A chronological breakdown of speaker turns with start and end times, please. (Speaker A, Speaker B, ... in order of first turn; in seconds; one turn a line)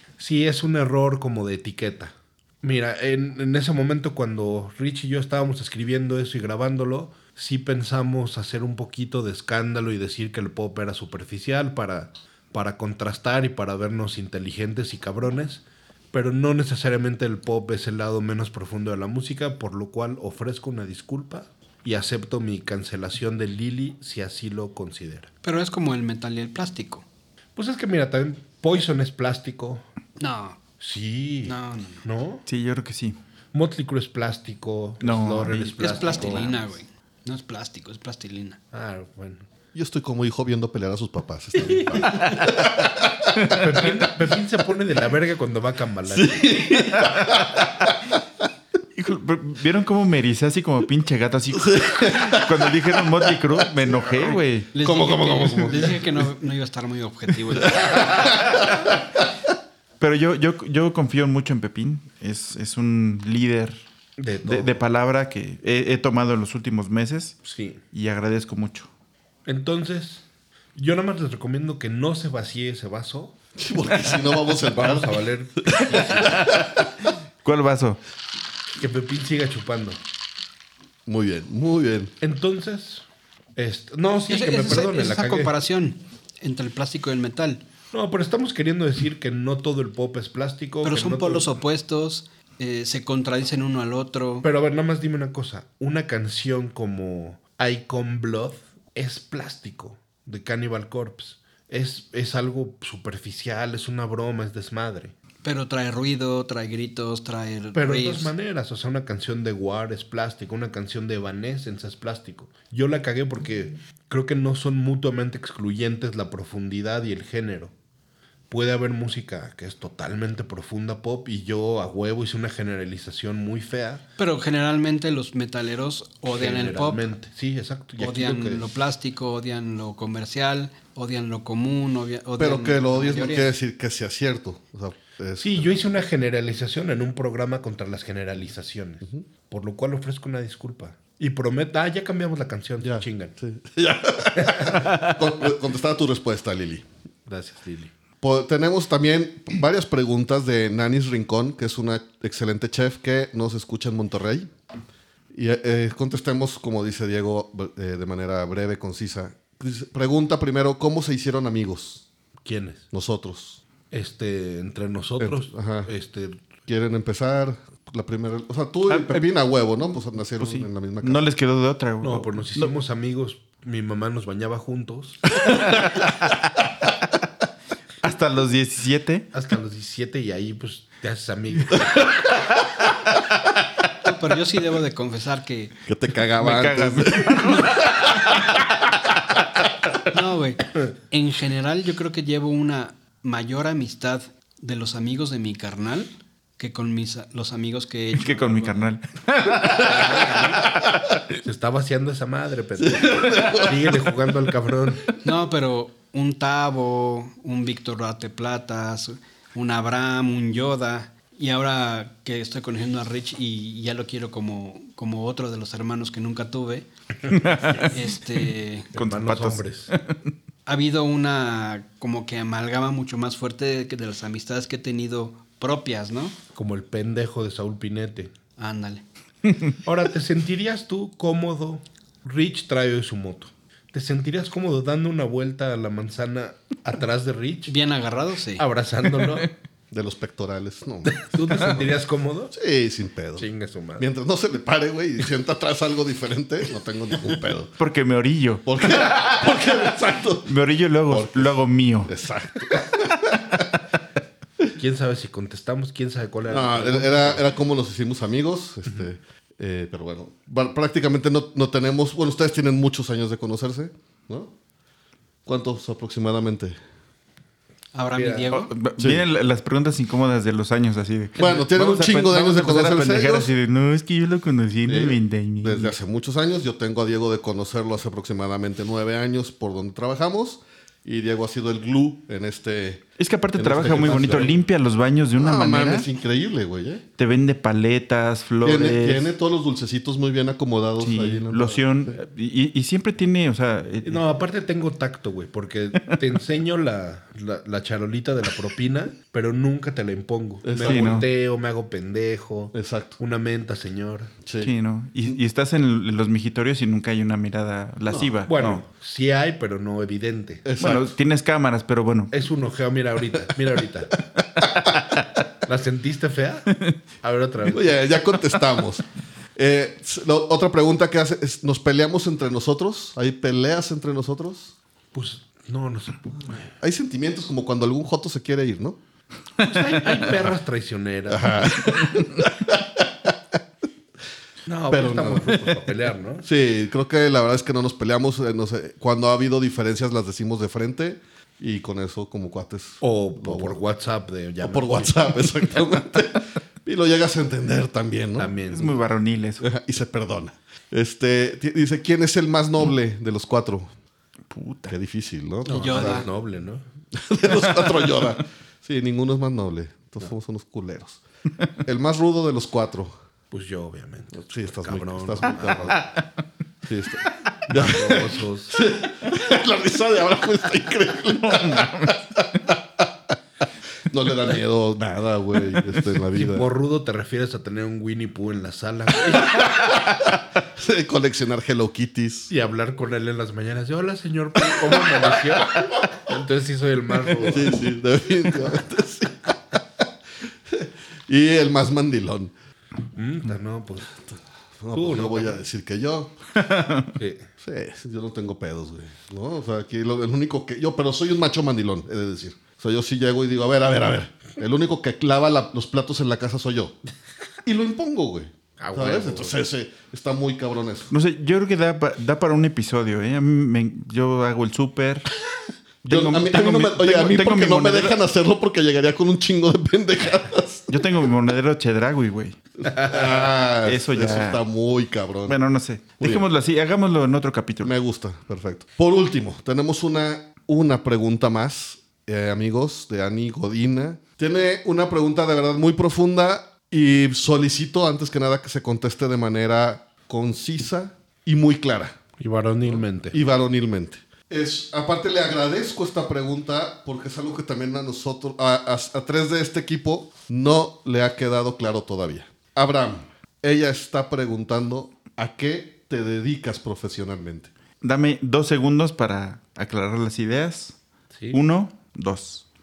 Speaker A: 0.2-25.3
Speaker B: 25.4-27.0
Speaker A: 27.6-29.8
Speaker B: 30.2-30.6
Speaker A: 30.8-32.4
Speaker B: 31.4-32.0
Speaker C: 32.5-33.2
Speaker A: 33.5-36.5
Speaker C: 35.0-36.5
Speaker B: 35.8-38.6
Speaker A: 38.7-39.5
Speaker D: 39.7-43.6
Speaker C: 42.0-42.7
Speaker C: 43.4-43.9
Speaker A: 43.5-46.5
Speaker D: 46.1-48.0
Speaker C: 47.0-47.4
Speaker C: 48.9-54.7
Speaker D: 51.6-56.1
Speaker B: 54.7-58.5
Speaker D: 57.6-58.8
Speaker C: 60.0-63.8
Speaker A: 64.2-64.8
Speaker C: 64.4-68.9
Speaker A: 67.4-67.8
Speaker A: 69.5-70.2
Speaker A: 70.7-73.4
Speaker D: 73.6-76.8
Speaker A: 74.7-76.4
Speaker C: 75.9-76.7
Speaker C: 77.4-78.0
Speaker A: 78.8-80.0
Speaker D: 81.0-82.1
Speaker A: 82.2-83.0
Speaker A: 83.5-85.5
Speaker B: 84.3-87.6
Speaker A: 87.9-91.5
Speaker B: 90.8-94.5
Speaker A: 94.4-105.1
Speaker B: 105.4-108.3
Speaker A: 107.7-117.7
Speaker A: 118.5-124.0
Speaker B: 124.2-127.1
Speaker A: 126.3-128.7
Speaker B: 128.0-133.5
Speaker D: 132.4-135.8
Speaker A: 135.4-143.3
Speaker D: 142.8-146.8
Speaker A: 144.4-144.8
Speaker A: 147.3-147.9
Speaker D: 148.2-154.5
Speaker D: 155.3-162.0
Speaker A: 162.4-162.8
Speaker D: 162.9-163.6
Speaker A: 163.9-166.4
Speaker D: 165.2-165.9
Speaker D: 166.7-171.2
Speaker C: 168.9-169.2
Speaker C: 170.3-172.7
Speaker A: 172.0-175.2
Speaker C: 175.4-176.3
Speaker C: 178.0-179.3
Speaker A: 179.3-182.0
Speaker B: 184.0-185.7
Speaker D: 185.9-188.2
Speaker C: 186.4-188.4
Speaker B: 190.1-198.9
Speaker C: 198.1-201.0
Speaker B: 199.7-200.6
Speaker A: 201.4-205.1
Speaker D: 202.8-203.9
Speaker B: 205.2-216.9
Speaker C: 217.3-218.1
Speaker B: 217.8-218.9
Speaker A: 218.9-219.9
Speaker C: 218.9-220.3
Speaker B: 220.7-226.3
Speaker A: 226.5-228.3
Speaker B: 228.6-229.0
Speaker A: 229.8-237.8
Speaker B: 237.7-238.6
Speaker A: 238.6-239.5
Speaker D: 239.9-241.9
Speaker A: 241.1-242.5
Speaker D: 242.5-243.5
Speaker A: 243.4-244.1
Speaker D: 244.0-247.8
Speaker C: 247.8-248.7
Speaker D: 248.7-250.6
Speaker C: 250.4-252.1
Speaker D: 251.1-253.6
Speaker A: 254.8-257.4
Speaker D: 256.5-264.5
Speaker D: 265.4-266.8
Speaker B: 267.9-268.7
Speaker A: 268.1-268.6
Speaker C: 268.5-275.9
Speaker D: 269.0-269.2
Speaker D: 271.4-273.5
Speaker D: 274.8-284.5
Speaker C: 283.2-286.1
Speaker A: 283.7-284.5
Speaker D: 285.4-287.1
Speaker C: 287.2-289.3
Speaker D: 288.6-292.1
Speaker C: 291.0-294.2
Speaker A: 294.0-304.3
Speaker D: 300.6-301.2
Speaker C: 300.8-301.3
Speaker D: 302.7-303.2
Speaker D: 304.4-304.7
Speaker C: 304.6-308.8
Speaker D: 308.1-308.3
Speaker A: 308.5-310.6
Speaker D: 310.6-311.1
Speaker C: 310.8-312.3
Speaker A: 312.3-314.1
Speaker C: 314.6-315.1
Speaker A: 315.6-318.0
Speaker D: 317.6-319.0
Speaker D: 319.6-324.7
Speaker A: 325.1-326.7
Speaker D: 326.8-329.0
Speaker A: 329.6-331.8
Speaker D: 331.3-333.3
Speaker A: 334.7-336.5
Speaker D: 334.9-335.8
Speaker D: 336.4-343.8
Speaker A: 343.0-345.3
Speaker D: 344.6-348.5
Speaker A: 348.4-349.0
Speaker C: 348.7-349.6
Speaker D: 349.6-353.9
Speaker C: 354.5-354.9
Speaker D: 354.9-356.3
Speaker B: 355.6-356.2
Speaker A: 355.7-356.8
Speaker D: 357.1-361.2
Speaker D: 361.8-363.1
Speaker A: 363.5-366.0
Speaker D: 364.4-366.1
Speaker D: 366.8-373.1
Speaker A: 367.7-368.8
Speaker C: 371.4-372.2
Speaker D: 374.0-376.7
Speaker A: 376.3-379.7
Speaker D: 379.5-382.5
Speaker A: 382.5-387.8
Speaker D: 387.4-389.8
Speaker D: 390.7-392.5
Speaker A: 393.1-394.1
Speaker D: 394.8-396.3
Speaker A: 394.9-395.6
Speaker C: 396.6-397.1
Speaker A: 397.1-397.5
Speaker D: 397.6-407.0
Speaker D: 407.6-411.1
Speaker A: 408.8-409.6
Speaker C: 411.1-415.3
Speaker C: 416.0-418.2
Speaker D: 416.0-420.9
Speaker C: 420.9-422.6
Speaker D: 422.9-425.6
Speaker C: 423.8-424.6
Speaker C: 425.5-427.9
Speaker D: 426.2-426.4
Speaker D: 427.8-442.2
Speaker A: 442.4-443.4
Speaker D: 442.9-457.7
Speaker C: 458.0-461.0
Speaker A: 461.3-461.6
Speaker C: 461.5-462.6